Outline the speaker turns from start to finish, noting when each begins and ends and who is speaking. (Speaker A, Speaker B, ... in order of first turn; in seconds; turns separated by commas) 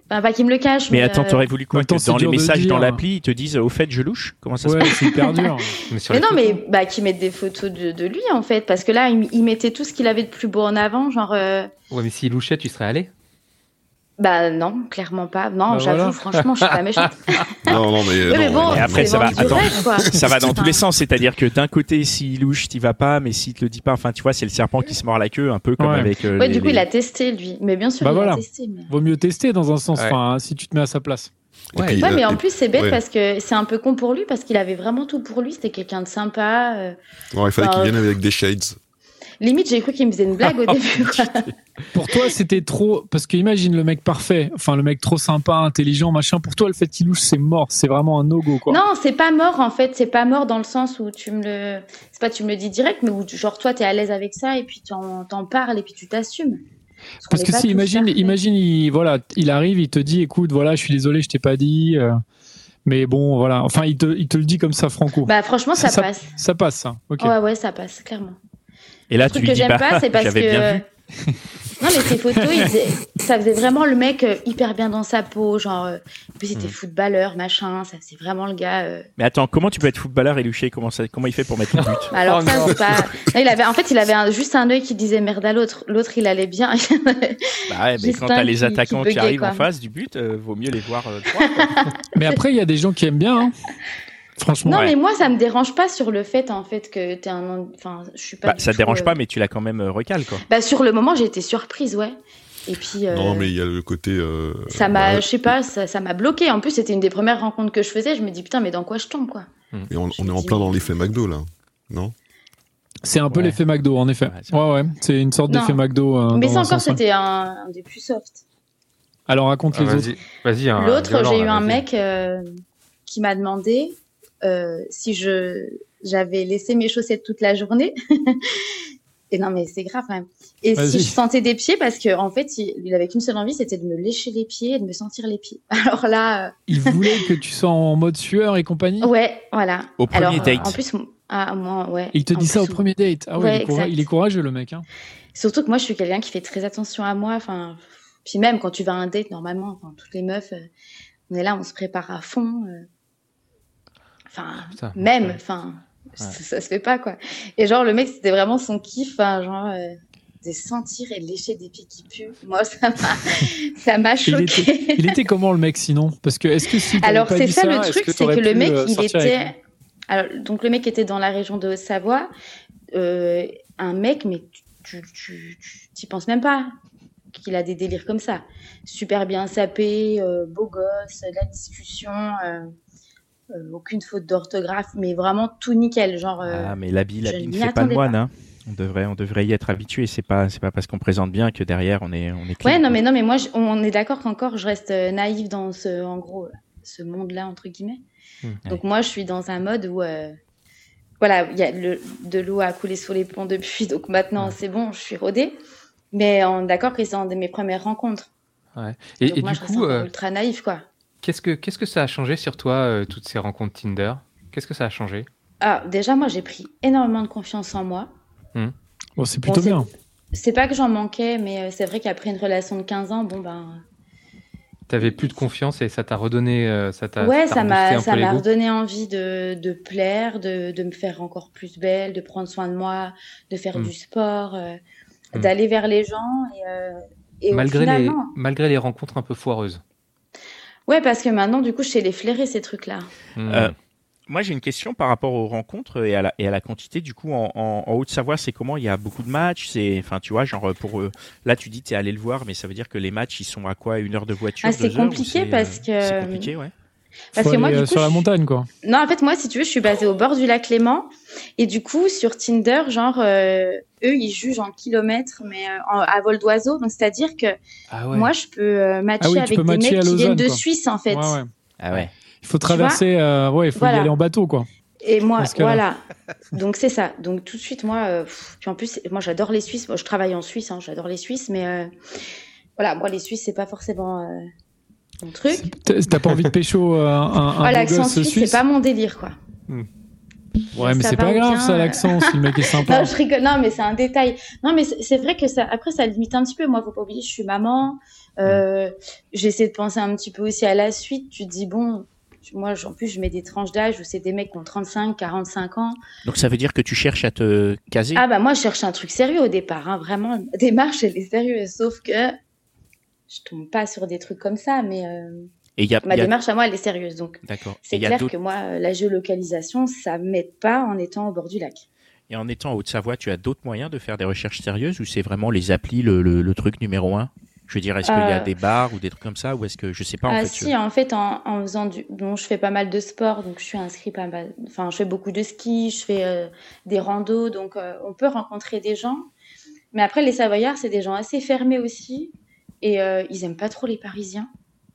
Speaker A: 0.1-1.4, Speaker B: 0.9-4.9, Speaker C: 1.7-3.0, Speaker C: 4.6-5.8, Speaker A: 4.9-11.7, Speaker D: 5.9-6.6, Speaker D: 11.9-13.1, Speaker A: 14.2-17.8, Speaker C: 15.7-16.2, Speaker E: 17.7-20.5, Speaker A: 18.3-20.8, Speaker B: 18.7-26.8, Speaker C: 25.8-26.1, Speaker A: 26.3-28.9, Speaker C: 28.0-31.3, Speaker E: 31.7-33.0, Speaker D: 31.7-32.0, Speaker A: 32.0-37.0, Speaker E: 37.3-38.8, Speaker A: 37.6-38.1, Speaker A: 39.4-41.5, Speaker C: 41.9-48.8, Speaker A: 48.6-56.6, Speaker A: 57.2-58.4, Speaker C: 57.2-62.2, Speaker C: 62.9-67.3, Speaker A: 65.2-66.3, Speaker A: 67.2-68.4, Speaker B: 69.1-70.8, Speaker A: 69.2-70.8, Speaker A: 71.8-79.0, Speaker C: 72.3-72.7, Speaker B: 79.2-82.1, Speaker D: 81.8-83.1, Speaker A: 82.1-89.7, Speaker B: 87.7-91.8, Speaker A: 91.7-92.3, Speaker C: 92.1-93.5, Speaker C: 94.4-94.9, Speaker A: 94.6-99.1, Speaker B: 94.7-94.9, Speaker B: 98.5-100.4, Speaker A: 100.5-103.5, Speaker E: 103.1-105.5, Speaker A: 104.7-109.5, Speaker E: 109.9-112.1, Speaker A: 110.1-111.0, Speaker C: 113.0-117.0, Speaker B: 113.3-113.6, Speaker B: 114.2-114.6, Speaker A: 115.5-118.4, Speaker C: 119.3-120.1, Speaker D: 119.7-121.8, Speaker A: 120.8-122.4, Speaker A: 123.0-128.6, Speaker A: 129.3-137.2, Speaker C: 130.8-131.2, Speaker C: 136.7-139.1, Speaker A: 139.0-142.8, Speaker B: 140.0-140.8, Speaker D: 140.2-140.7, Speaker C: 142.1-144.8, Speaker A: 143.3-144.1, Speaker A: 145.3-150.7, Speaker A: 151.3-152.8, Speaker A: 154.3-165.1, Speaker D: 154.7-155.4, Speaker C: 164.2-169.4, Speaker A: 166.9-169.6, Speaker A: 170.1-172.3, Speaker A: 172.9-176.7, Speaker A: 177.3-182.7, Speaker A: 183.5-188.1, Speaker B: 186.4-192.9, Speaker A: 192.6-198.0, Speaker A: 198.7-200.3, Speaker A: 201.2-205.5, Speaker A: 206.1-208.3, Speaker D: 208.8-210.1, Speaker A: 209.2-210.8, Speaker D: 211.2-215.3, Speaker A: 215.6-218.1, Speaker C: 219.2-219.9, Speaker A: 219.4-223.8, Speaker D: 224.9-228.4, Speaker A: 227.2-234.8, Speaker A: 235.3-238.3, Speaker D: 237.5-239.8, Speaker A: 240.9-243.1, Speaker D: 243.3-243.7, Speaker B: 243.5-243.7, Speaker B: 244.3-256.7, Speaker A: 254.6-256.5, Speaker A: 257.3-258.3, Speaker C: 257.4-258.7, Speaker A: 258.8-267.6, Speaker D: 267.9-268.3, Speaker A: 268.1-271.4, Speaker C: 269.2-271.5, Speaker B: 271.8-272.1, Speaker C: 272.4-274.7, Speaker A: 272.6-273.0, Speaker A: 273.7-274.1, Speaker A: 275.0-276.0, Speaker C: 275.3-275.8, Speaker A: 276.5-281.9, Speaker A: 282.8-284.4, Speaker A: 285.2-285.7, Speaker C: 285.5-288.6, Speaker A: 287.6-289.4, Speaker C: 290.7-293.1, Speaker A: 290.7-306.0, Speaker B: 306.2-308.2, Speaker A: 308.1-312.3, Speaker A: 313.3-315.5, Speaker B: 315.8-316.3, Speaker A: 316.0-321.9, Speaker B: 317.4-318.3, Speaker B: 322.3-330.7, Speaker A: 328.0-328.5, Speaker A: 330.3-339.3, Speaker A: 339.9-344.5